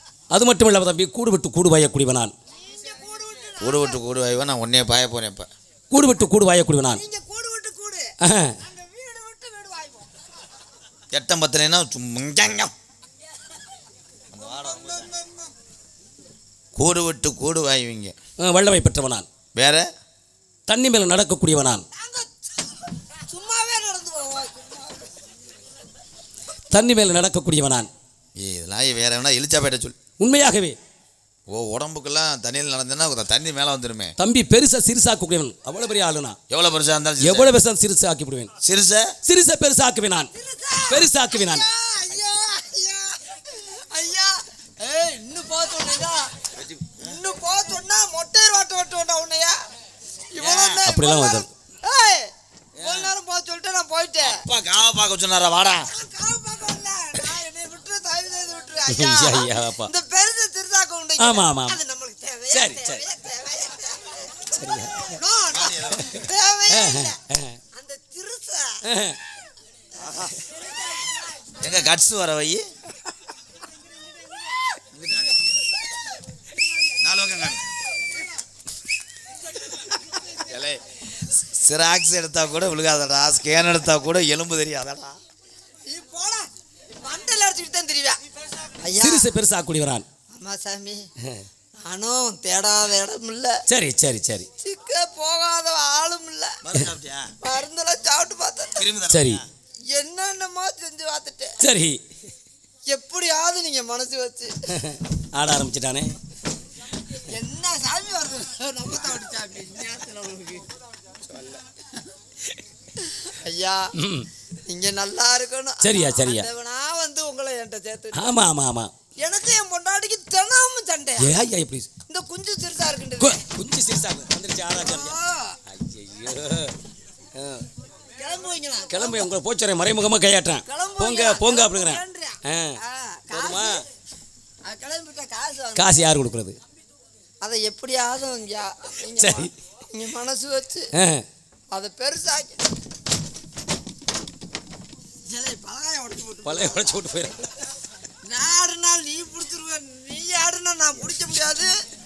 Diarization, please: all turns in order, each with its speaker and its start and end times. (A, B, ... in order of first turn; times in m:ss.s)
0:00.3-0:02.3 A
0:02.6-0:04.0 B
0:03.6-0:05.5 C
0:05.9-0:07.0 A
0:06.9-0:10.1 B
0:08.2-0:08.6 A
0:11.1-0:12.7 C
0:14.3-0:15.1 C
0:14.3-0:15.5 B
0:16.7-0:18.2 C
0:18.4-0:19.3 A
0:19.5-0:19.9 C
0:20.7-0:21.8 A
0:22.0-0:22.3 B
0:23.1-0:25.1 B
0:26.7-0:27.9 A
0:28.4-0:30.0 C
0:30.2-0:30.8 A
0:31.5-0:34.1 C
0:34.2-0:36.4 A
0:36.5-0:37.5 C
0:37.2-0:38.5 A
0:38.6-0:39.2 C
0:39.2-0:40.3 A
0:40.3-0:46.3 B
0:40.9-0:41.6 A
0:46.5-0:47.1 C
0:47.0-0:49.6 B
0:50.3-0:54.4 B
0:50.4-0:50.8 C
0:50.8-0:51.5 A
0:52.8-0:53.1 C
0:54.2-0:55.9 C
0:55.9-1:07.2 B
0:58.9-0:59.9 A
1:01.2-1:01.8 A
1:02.5-1:03.0 A
1:04.5-1:05.2 A
1:05.5-1:06.1 C
1:06.0-1:07.6 A
1:07.7-1:08.8 B
1:08.8-1:09.2 A
1:10.3-1:11.5 B
1:11.6-1:12.7 C
1:14.9-1:15.6 C
1:17.0-1:17.7 C
1:20.4-1:25.2 C
1:25.9-1:26.5 B
1:27.0-1:29.3 B
1:29.0-1:30.0 A
1:30.3-1:31.1 B
1:31.8-1:33.6 B
1:33.7-1:34.5 A
1:34.6-1:36.6 B
1:36.6-1:37.3 C
1:37.4-1:38.9 B
1:38.8-1:39.4 C
1:39.1-1:39.4 A
1:39.9-1:41.6 B
1:41.6-1:42.0 A
1:42.9-1:44.6 B
1:44.7-1:46.1 A
1:47.2-1:50.7 B
1:53.0-1:53.9 B
1:54.0-1:54.3 A
1:54.6-1:58.3 B
1:55.8-1:56.5 A
1:58.1-1:58.9 A
1:59.2-2:01.3 B
2:01.2-2:01.9 A
2:02.1-2:03.4 B
2:03.2-2:05.2 A
2:04.8-2:05.6 B
2:05.7-2:06.7 A
2:07.3-2:07.7 A
2:08.2-2:09.3 B
2:08.9-2:12.8 A
2:10.7-2:13.8 B
2:13.3-2:13.8 A
2:14.6-2:16.1 B
2:15.8-2:16.6 A
2:17.4-2:20.9 B
2:19.2-2:19.5 A
2:20.9-2:21.2 A
2:21.7-2:22.7 B
2:25.2-2:27.0 B
2:26.4-2:27.4 A
2:28.2-2:31.7 B